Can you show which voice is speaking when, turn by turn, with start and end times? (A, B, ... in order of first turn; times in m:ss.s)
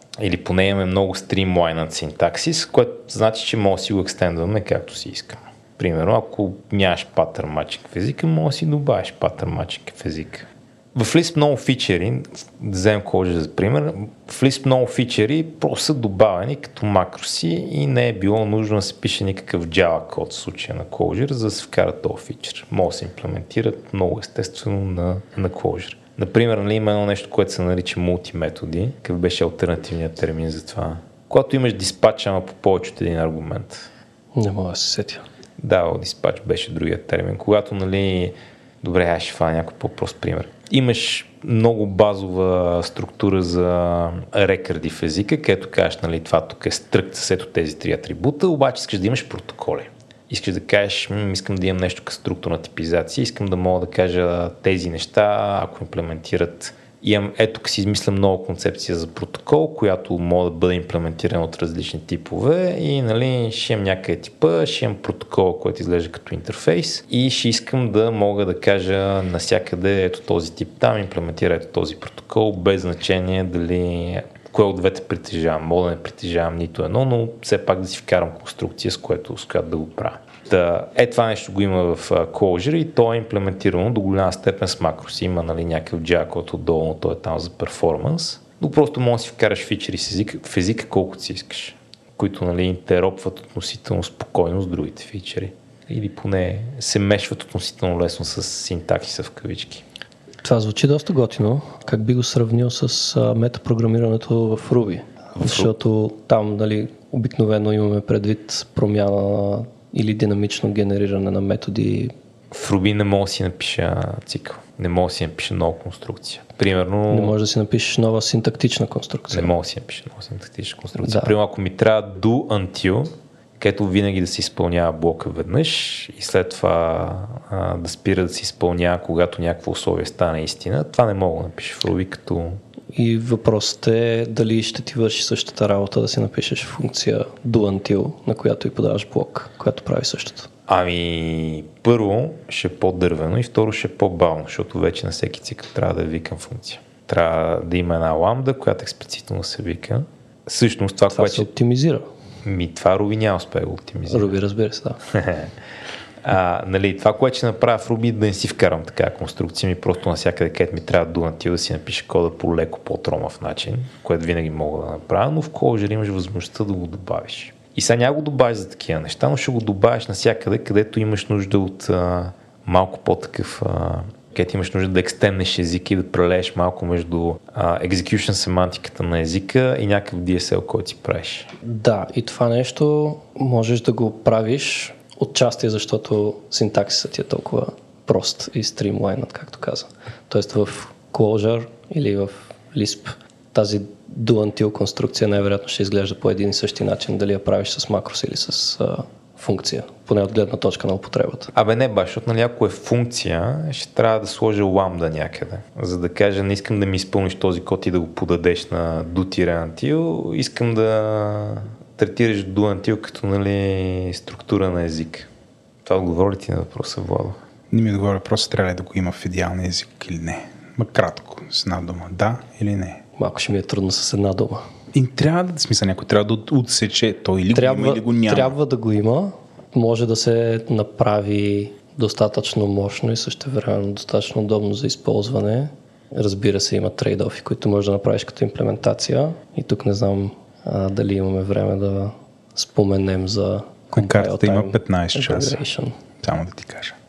0:00.2-0:33.9 A
0:34.4-0:35.2 B
0:35.6-1:39.8 A
1:40.4-1:52.1 B
1:45.4-1:45.7 A
1:52.5-1:57.4 A
1:57.1-1:59.5 B
1:59.3-2:12.6 A
2:01.0-2:01.3 B
2:12.9-2:20.5 B
2:20.7-2:31.5 A
2:31.1-2:32.1 B
2:32.4-2:34.3 A
2:34.1-2:35.0 B
2:35.1-2:35.5 A
2:36.2-3:01.5 A
3:01.6-3:21.5 B
3:21.5-3:35.3 A
3:35.8-3:37.4 A
3:37.7-3:43.0 C
3:43.2-3:44.6 B
3:44.9-3:48.6 C
3:47.5-4:06.0 B
4:04.0-4:05.6 C
4:06.2-4:07.0 C